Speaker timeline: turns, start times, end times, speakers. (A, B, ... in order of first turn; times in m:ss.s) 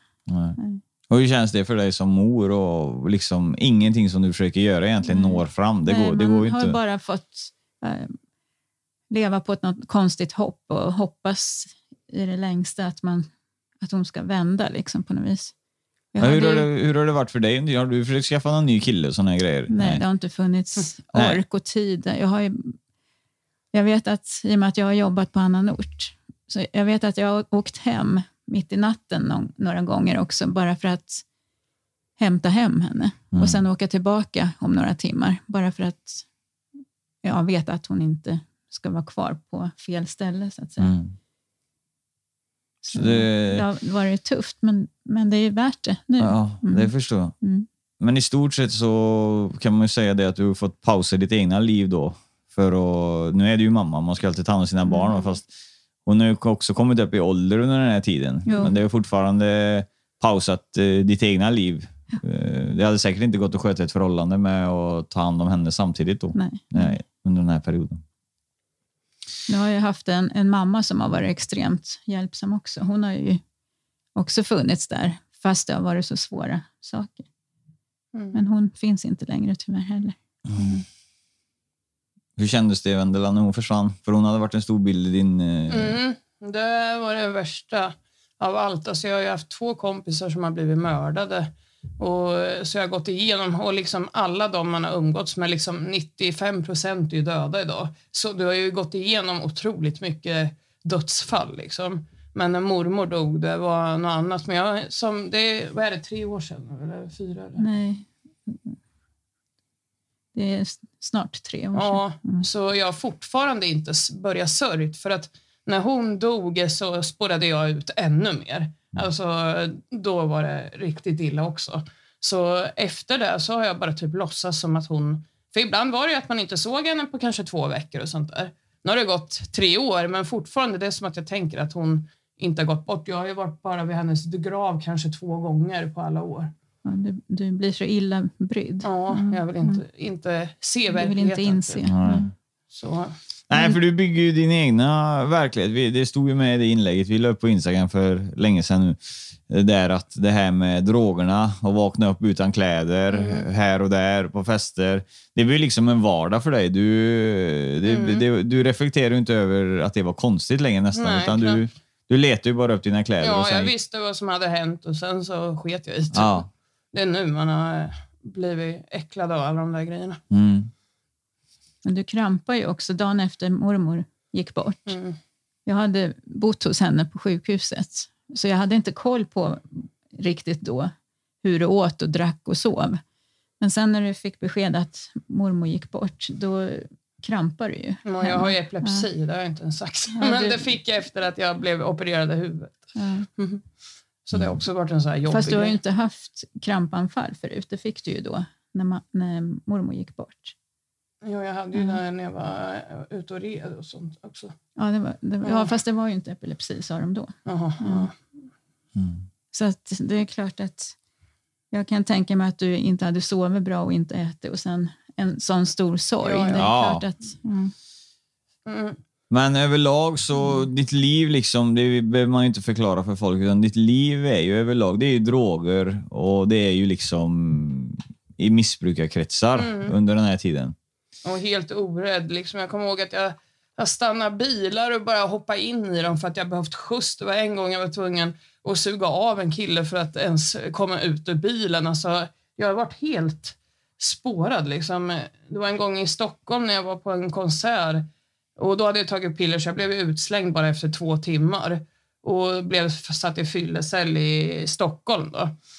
0:00.3-0:00.6 A
0:01.1-0:06.8 A
0:05.0-0:08.2 B
0:09.1-0:13.3 B
0:13.8-0:15.5 B
0:16.1-0:16.7 B
0:16.2-0:20.0 A
0:19.7-0:22.8 B
0:21.1-0:21.4 A
0:23.7-0:31.2 B
0:32.2-0:36.2 B
0:33.3-0:33.6 A
0:37.2-0:40.9 B
0:40.8-0:41.1 A
0:42.8-0:47.6 B
0:42.9-0:43.6 A
0:46.2-0:47.3 A
0:48.0-0:55.5 A
0:54.9-0:55.2 B
0:56.0-1:08.0 A
0:58.4-0:58.7 B
1:06.3-1:07.0 B
1:09.5-1:13.4 B
1:14.1-1:17.2 B
1:18.1-1:18.4 C
1:18.3-1:20.8 B
1:22.4-1:26.0 A
1:25.7-1:47.6 C
1:47.6-1:48.8 B
1:50.3-1:52.4 B
1:51.7-2:16.5 C
2:16.8-2:19.8 B
2:18.8-2:22.0 C
2:20.9-2:22.2 B
2:21.9-2:22.3 A
2:22.7-2:23.1 C
2:23.5-2:43.7 A
2:33.1-2:33.5 C
2:37.8-2:38.2 C
2:40.9-2:41.6 C
2:43.2-2:50.2 C
2:46.1-2:46.5 A
2:50.3-2:50.7 A
2:51.8-2:55.0 B
2:54.9-2:55.2 C
2:55.6-3:03.0 B
3:03.6-3:09.1 B
3:08.0-3:12.8 C
3:10.1-3:10.8 B
3:13.0-3:13.2 B
3:13.4-3:13.6 C
3:14.2-3:15.8 C
3:15.3-3:20.5 B
3:21.2-3:24.6 C
3:24.8-3:28.1 B
3:25.4-3:25.7 C
3:27.4-3:28.1 C
3:29.0-3:29.2 A
3:29.5-3:30.9 B
3:31.7-3:37.7 B
3:36.2-3:36.7 C
3:36.6-3:37.0 A
3:38.6-3:39.0 C
3:39.3-3:50.7 A
3:49.6-3:49.9 C
3:51.2-4:15.5 C